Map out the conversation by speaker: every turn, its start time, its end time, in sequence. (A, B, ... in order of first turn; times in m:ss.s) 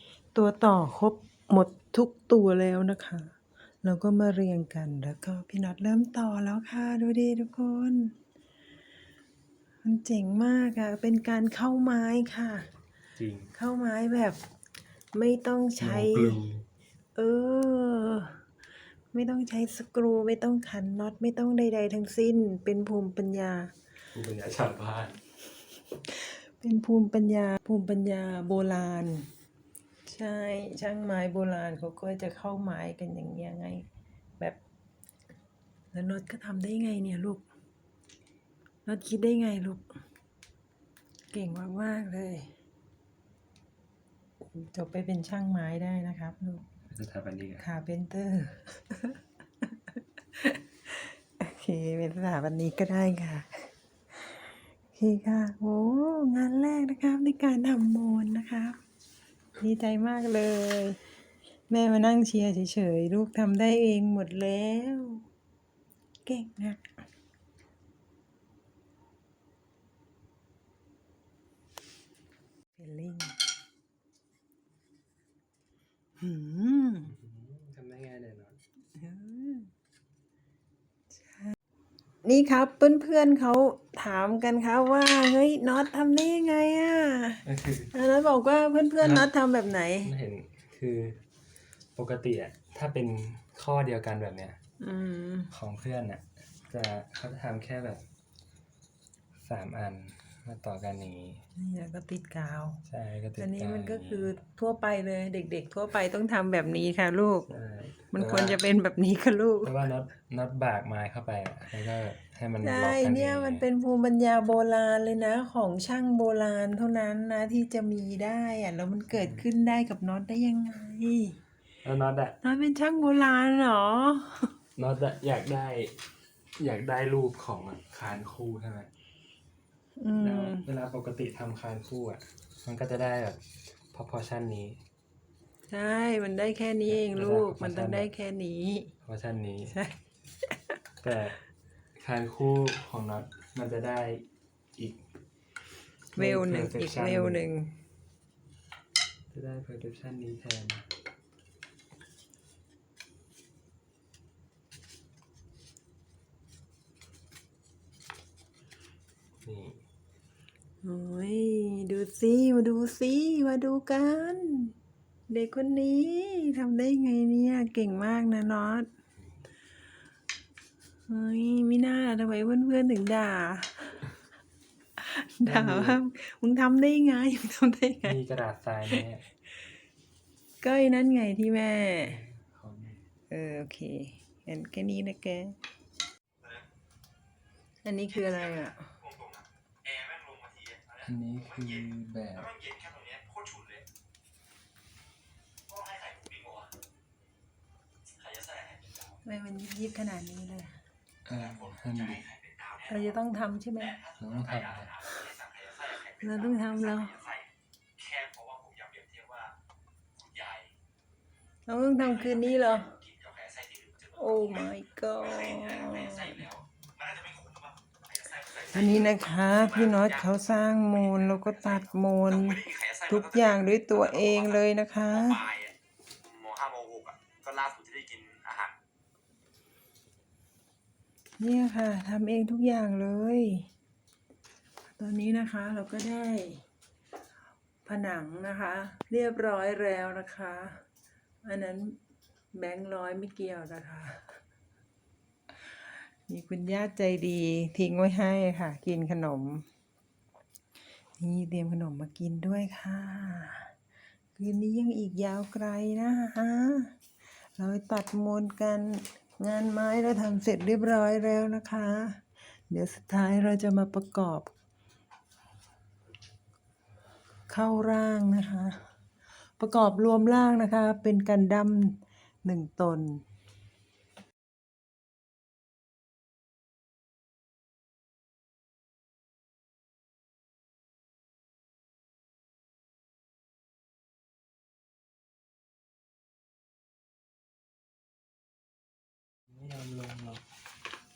0:00.3-0:08.1 A
0:09.8-0:12.7 A
0:13.2-0:13.5 B
0:13.5-0:14.4 A
0:15.1-0:16.4 A
0:15.8-0:16.6 B
0:17.2-0:18.4 A
0:19.1-0:23.7 A
0:24.1-0:25.2 B
0:26.0-0:29.3 A
0:30.0-0:33.9 A
0:35.9-0:37.4 A
0:38.8-0:39.9 A
0:41.3-0:42.5 A
0:44.4-0:46.6 A
0:46.9-0:47.6 B
0:47.6-0:49.2 A
0:49.9-0:53.7 A
0:54.9-0:58.8 A
0:59.6-1:01.0 A
1:01.7-1:05.2 A
1:06.2-1:06.9 A
1:12.8-1:13.4 A
1:16.2-1:17.1 A
1:17.0-1:18.6 B
1:19.0-1:19.7 A
1:21.2-1:21.6 A
1:22.2-1:30.1 A
1:27.4-1:27.9 B
1:29.0-1:29.3 B
1:30.0-1:31.2 B
1:31.9-1:34.6 B
1:34.8-1:35.5 A
1:35.5-1:38.0 B
1:39.4-1:41.4 B
1:41.5-1:42.8 A
1:42.9-1:44.3 B
1:43.4-1:47.5 A
1:47.5-1:48.6 B
1:48.1-1:49.7 A
1:49.6-1:53.6 B
1:52.6-2:01.4 A
1:59.1-1:59.4 B
2:01.8-2:02.4 B
2:02.4-2:04.5 A
2:04.8-2:05.9 B
2:06.6-2:08.9 B
2:10.0-2:10.7 A
2:10.2-2:13.4 B
2:13.9-2:14.8 B
2:15.7-2:18.9 A
2:16.9-2:18.1 B
2:19.0-2:19.8 B
2:19.7-2:20.0 A
2:21.0-2:21.4 B
2:22.0-2:24.2 B
2:24.8-2:25.0 B
2:26.1-2:27.7 A
2:26.2-2:27.4 B
2:29.3-2:30.9 B
2:39.4-2:39.8 B
2:40.8-2:44.7 A
2:45.3-2:48.9 A
2:51.1-2:54.1 A
2:55.0-2:58.2 A
2:55.4-2:56.0 B
2:58.0-2:59.2 B
3:00.6-3:02.2 A
3:02.0-3:03.0 B
3:03.3-3:05.6 A
3:07.8-3:08.9 A
3:09.9-3:10.8 C
3:11.0-3:12.6 B
3:12.8-3:13.7 C
3:15.8-3:16.6 C
3:19.2-3:20.8 A
3:21.2-3:22.3 B
3:22.8-3:24.0 A
3:24.2-3:25.0 B
3:26.0-3:27.3 A
3:28.0-3:29.5 C
3:31.7-3:33.0 A
3:33.2-3:34.0 C
3:34.1-3:36.6 A
3:37.1-3:37.6 C
3:38.5-3:45.5 A
3:46.4-3:48.7 C
3:51.4-3:53.7 A
3:55.0-3:56.6 A
3:57.8-4:00.8 A
4:01.4-4:02.0 A
4:02.5-4:04.4 A
4:06.2-4:09.7 A
4:11.2-4:13.7 A
4:14.3-4:16.9 A
4:17.6-4:24.5 A
4:27.5-4:28.9 A
4:29.6-4:33.2 A
4:49.5-4:50.4 B